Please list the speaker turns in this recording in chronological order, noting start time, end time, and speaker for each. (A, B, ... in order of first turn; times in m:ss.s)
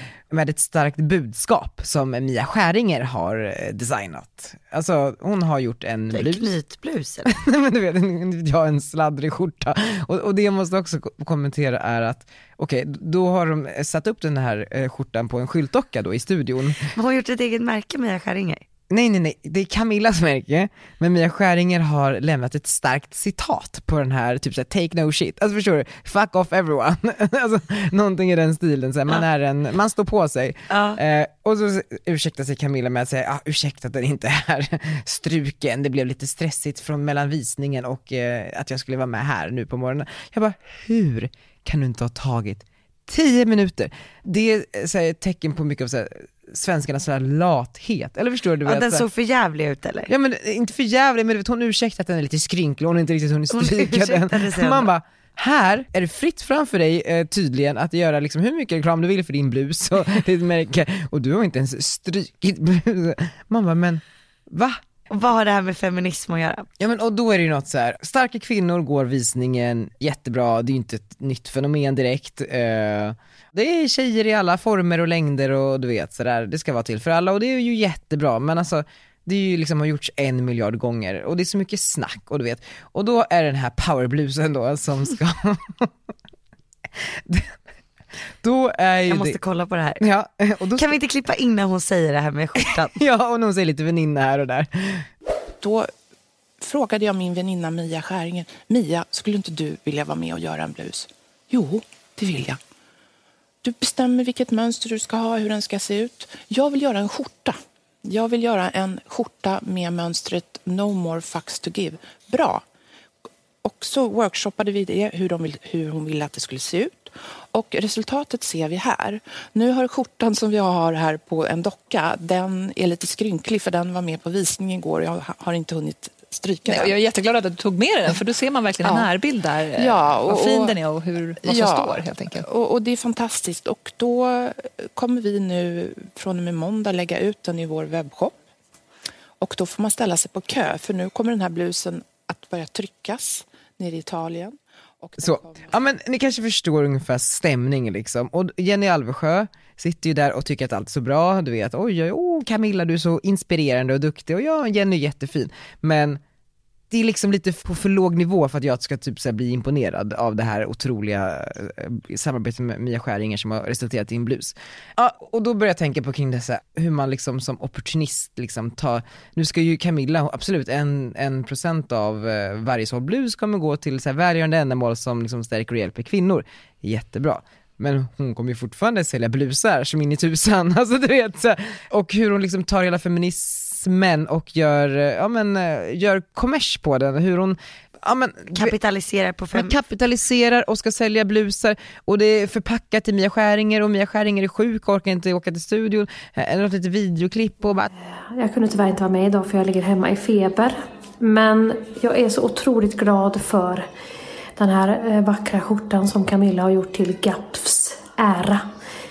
0:00.3-0:06.5 A
0:06.1-0:07.3 B
0:07.2-0:16.9 A
0:16.8-0:18.6 B
0:18.9-0:49.0 A
0:30.7-0:31.0 B
0:48.6-0:50.1 B
0:50.1-1:04.8 A
0:53.5-0:54.9 B
1:05.1-1:06.7 B
1:06.8-1:25.9 A
1:27.2-1:27.5 A
1:28.4-1:29.4 A
1:29.1-1:30.0 B
1:30.0-1:30.9 A
1:30.8-1:33.0 B
1:32.6-1:35.1 A
1:35.6-1:35.9 C
1:36.6-1:42.6 C
1:43.6-1:52.6 C
1:53.6-2:07.0 C
2:06.6-2:12.4 D
2:08.8-2:09.1 C
2:09.8-2:10.8 C
2:11.4-2:18.4 C
2:19.4-2:25.7 C
2:25.2-2:36.2 A
2:36.9-3:08.7 A
3:08.5-3:09.8 B
3:09.5-3:17.9 A
3:18.2-3:23.9 E
3:24.6-3:28.6 E